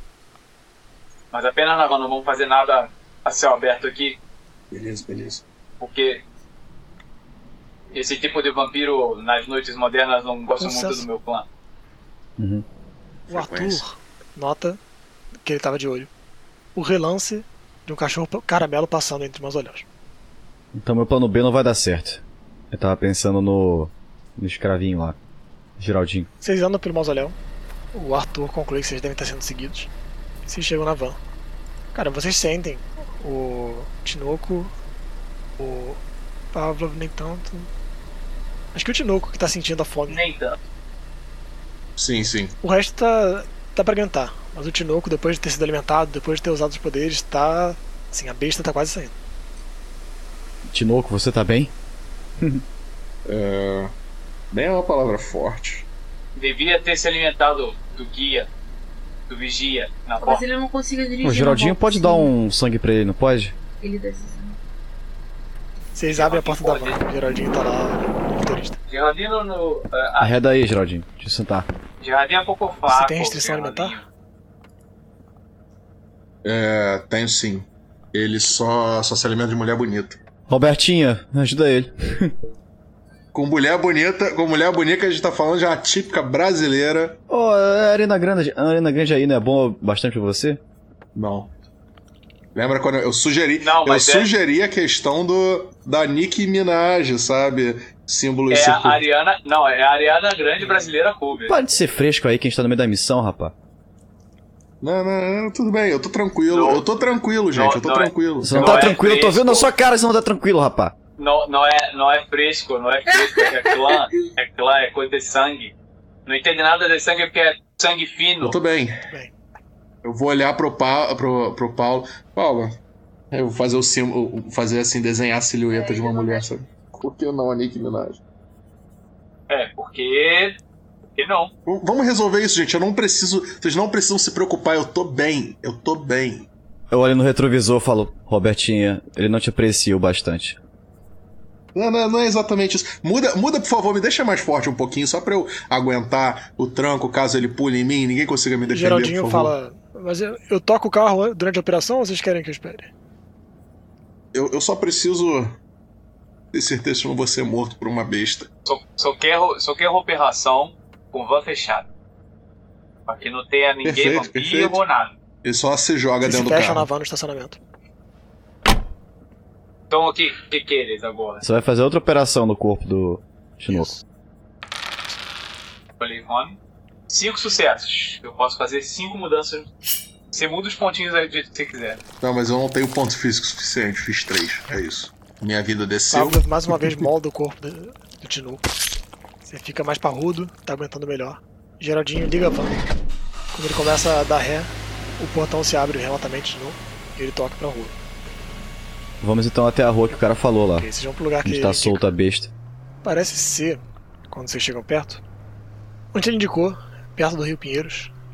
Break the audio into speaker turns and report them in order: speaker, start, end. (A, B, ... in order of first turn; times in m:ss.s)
0:01.3-0:04.2 A
0:04.7-0:05.4 B
0:05.8-0:06.2 A
0:07.9-0:11.4 A
0:10.6-0:11.0 C
0:12.4-0:12.6 D
0:13.3-0:13.8 B
0:13.3-0:14.8 C
0:15.4-0:16.1 C
0:16.7-0:19.8 C
0:20.7-0:25.2 D
0:25.8-0:26.3 D
0:26.4-0:27.4 C
0:27.9-0:29.9 C
0:30.4-0:31.2 C
0:31.9-0:34.7 C
0:35.6-0:36.0 C
0:36.5-0:37.7 C
0:38.7-0:40.2 C
0:40.1-0:40.6 A
0:42.0-0:42.5 B
0:42.6-0:49.1 C
0:50.7-0:51.7 D
0:53.2-0:53.9 B
0:54.5-0:55.9 B
0:56.3-0:58.5 A
0:59.3-1:00.4 A
1:00.2-1:02.3 E
1:01.2-1:03.6 D
1:03.8-1:04.6 E
1:05.9-1:08.8 C
1:06.1-1:07.0 A
1:08.9-1:10.4 A
1:10.2-1:11.7 D
1:12.0-1:14.0 A
1:12.9-1:14.0 C
1:16.4-1:20.2 B
1:20.5-1:22.3 D
1:23.3-1:27.2 B
1:27.3-1:30.6 D
1:31.1-1:31.5 B
1:32.5-1:39.0 B
1:33.6-1:34.3 A
1:38.5-1:41.6 A
1:41.5-1:43.5 D
1:44.8-1:49.0 B
1:46.5-1:46.9 A
1:47.5-1:49.7 A
1:48.4-1:50.9 D
1:51.2-1:55.7 A
1:56.2-1:58.6 A
1:58.4-1:59.0 B
2:00.0-2:02.8 B
2:03.3-2:08.2 B
2:05.7-2:06.5 E
2:09.5-2:10.6 A
2:11.2-2:11.5 A
2:11.6-2:16.5 B
2:16.9-2:20.6 D
2:21.7-2:29.5 B
2:28.7-2:32.9 C
2:34.3-2:35.6 B
2:36.5-2:38.5 B
2:38.6-2:41.9 A
2:43.1-2:45.1 A
2:43.8-2:44.8 B
2:45.4-2:46.9 B
2:46.2-2:47.6 C
2:49.9-2:51.4 A
2:51.4-2:54.0 D
2:56.0-2:56.6 A
2:57.1-2:59.7 A
3:00.3-3:02.0 A
3:02.2-3:07.0 B
3:06.1-3:08.6 C
3:09.4-3:12.8 C
3:13.5-3:17.9 C
3:19.2-3:20.9 D
3:20.8-3:22.1 C
3:21.4-3:22.5 D
3:23.0-3:23.8 C
3:24.3-3:25.2 C
3:26.1-3:28.1 C